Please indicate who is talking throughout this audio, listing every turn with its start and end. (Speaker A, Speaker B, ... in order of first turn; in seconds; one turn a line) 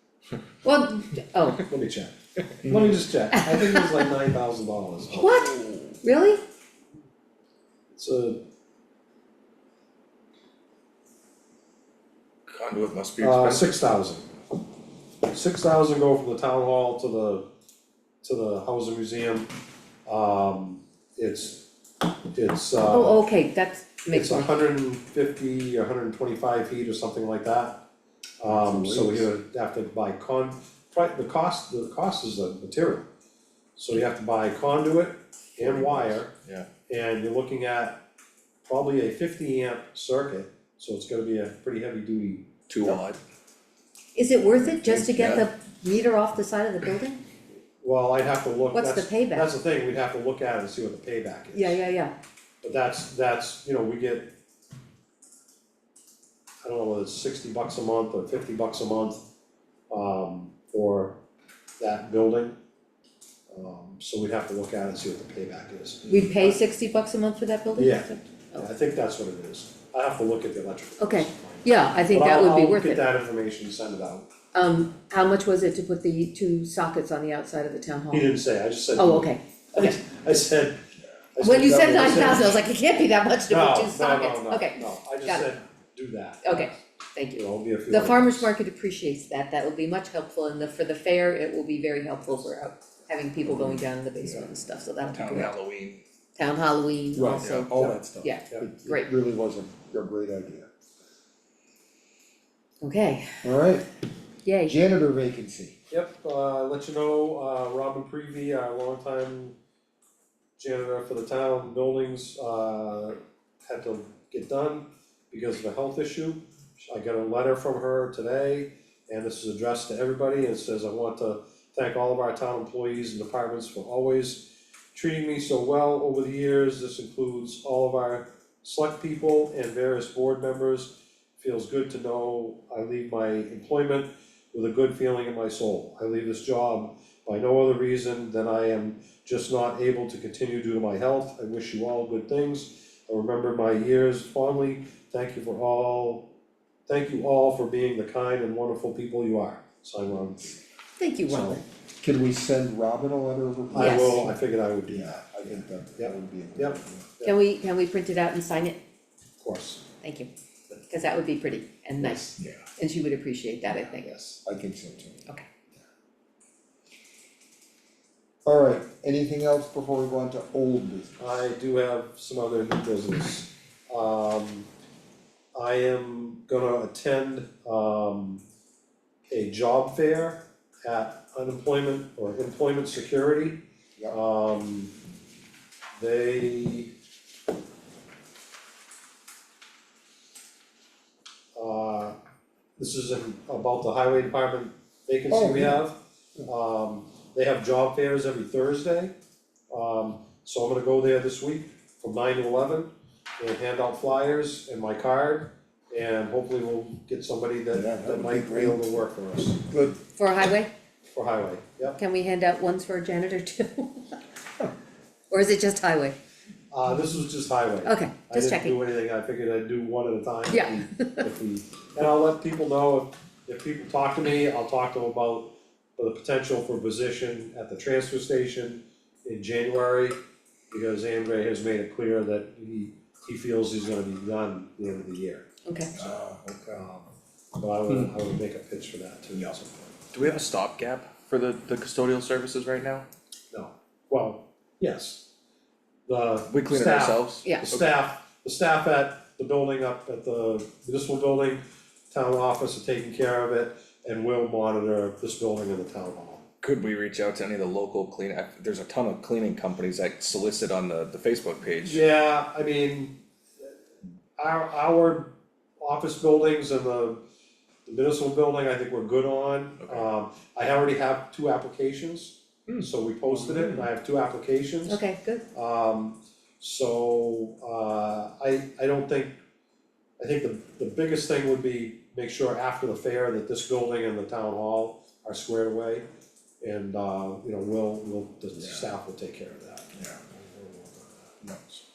Speaker A: 0.6-1.6
Speaker B: 1.6-5.3
Speaker A: 3.3-4.0
Speaker A: 5.1-6.4
Speaker B: 7.9-8.4
Speaker C: 12.5-13.7
Speaker B: 13.2-14.2
Speaker B: 15.3-17.5
Speaker B: 18.2-19.5
Speaker B: 20.1-21.6
Speaker B: 22.3-23.2
Speaker A: 22.8-24.6
Speaker B: 24.1-27.8
Speaker B: 28.4-33.1
Speaker D: 28.5-29.2
Speaker B: 33.8-36.3
Speaker C: 35.6-36.7
Speaker B: 36.9-38.0
Speaker B: 38.6-42.5
Speaker C: 42.7-43.2
Speaker A: 44.1-47.2
Speaker B: 44.8-45.4
Speaker B: 47.8-51.8
Speaker A: 48.7-49.5
Speaker A: 51.5-52.1
Speaker B: 52.6-54.3
Speaker B: 56.6-59.2
Speaker B: 59.9-61.2
Speaker B: 61.8-62.5
Speaker B: 63.5-66.6
Speaker A: 66.1-68.7
Speaker B: 67.8-74.3
Speaker A: 71.0-73.1
Speaker A: 74.5-78.3
Speaker B: 78.1-80.8
Speaker A: 79.0-79.9
Speaker B: 81.3-82.6
Speaker A: 81.4-85.5
Speaker B: 83.5-86.8
Speaker A: 86.4-95.5
Speaker B: 87.3-88.5
Speaker C: 95.1-96.0
Speaker A: 96.3-99.1
Speaker D: 97.1-98.0
Speaker C: 97.3-98.3
Speaker B: 97.8-98.7
Speaker D: 98.6-100.7
Speaker A: 102.8-103.4
Speaker D: 103.4-103.9
Speaker A: 104.4-104.8
Speaker D: 104.7-105.8
Speaker B: 105.9-109.5
Speaker B: 110.6-146.3
Speaker B: 146.9-150.6
Speaker A: 151.0-151.6
Speaker D: 151.3-154.3
Speaker B: 153.7-157.3
Speaker A: 153.7-154.3
Speaker D: 154.9-157.0
Speaker A: 157.2-158.8
Speaker B: 159.4-159.8
Speaker A: 160.0-160.3
Speaker A: 160.8-164.1
Speaker B: 162.0-162.3
Speaker B: 164.1-164.4
Speaker D: 164.4-165.2
Speaker D: 168.4-171.3
Speaker B: 171.2-174.7
Speaker B: 175.5-178.4
Speaker B: 179.3-184.9
Speaker B: 186.0-186.9
Speaker B: 191.5-192.1
Speaker B: 192.8-199.1
Speaker D: 195.3-195.8
Speaker B: 199.7-209.6
Speaker D: 207.7-208.9
Speaker D: 209.6-210.0
Speaker A: 210.2-210.7
Speaker B: 211.1-212.0
Speaker A: 212.0-214.2
Speaker A: 215.3-216.2
Speaker B: 216.7-230.2
Speaker A: 217.8-218.8
Speaker A: 220.5-221.2
Speaker B: 230.7-237.1
Speaker A: 235.7-235.9
Speaker C: 235.9-236.8
Speaker B: 237.6-239.9
Speaker C: 240.1-243.0
Speaker B: 243.5-245.2
Speaker B: 246.1-256.4
Speaker C: 246.5-247.8
Speaker C: 256.6-262.0
Speaker B: 261.8-263.2
Speaker B: 264.4-267.2
Speaker B: 267.9-275.0
Speaker C: 269.8-270.1
Speaker C: 273.5-273.8
Speaker A: 274.9-275.4
Speaker B: 275.5-279.4
Speaker B: 280.2-286.1
Speaker B: 286.6-291.3
Speaker C: 288.6-288.8
Speaker C: 291.4-291.8